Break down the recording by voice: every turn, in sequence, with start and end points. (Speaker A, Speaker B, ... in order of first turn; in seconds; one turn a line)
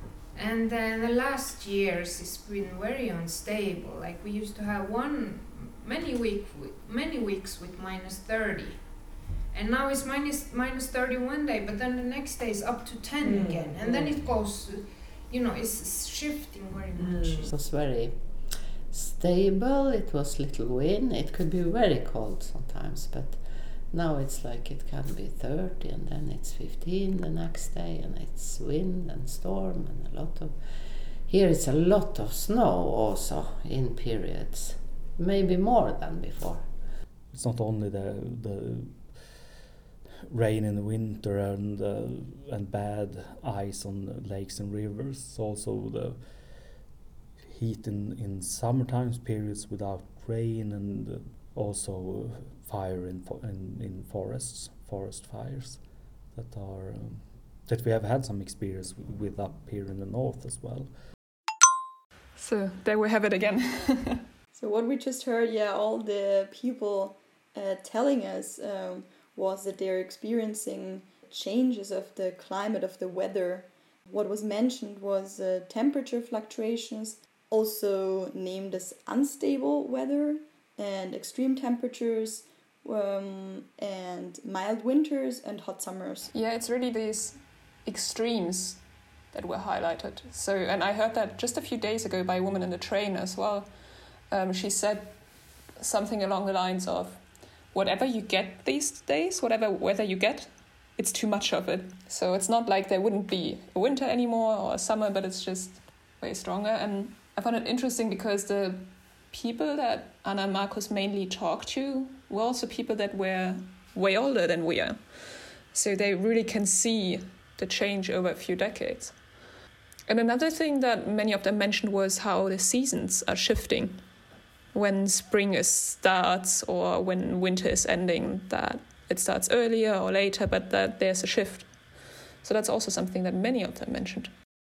Speaker A: 0.3-17.5
Speaker B: 17.5-36.8
Speaker C: 37.3-39.5
Speaker C: 40.3-60.9
Speaker D: 62.4-64.2
Speaker E: 64.5-86.3
Speaker D: 86.3-93.7
Speaker D: 94.3-119.3
Speaker D: 120.1-124.1
Speaker D: 124.7-134.3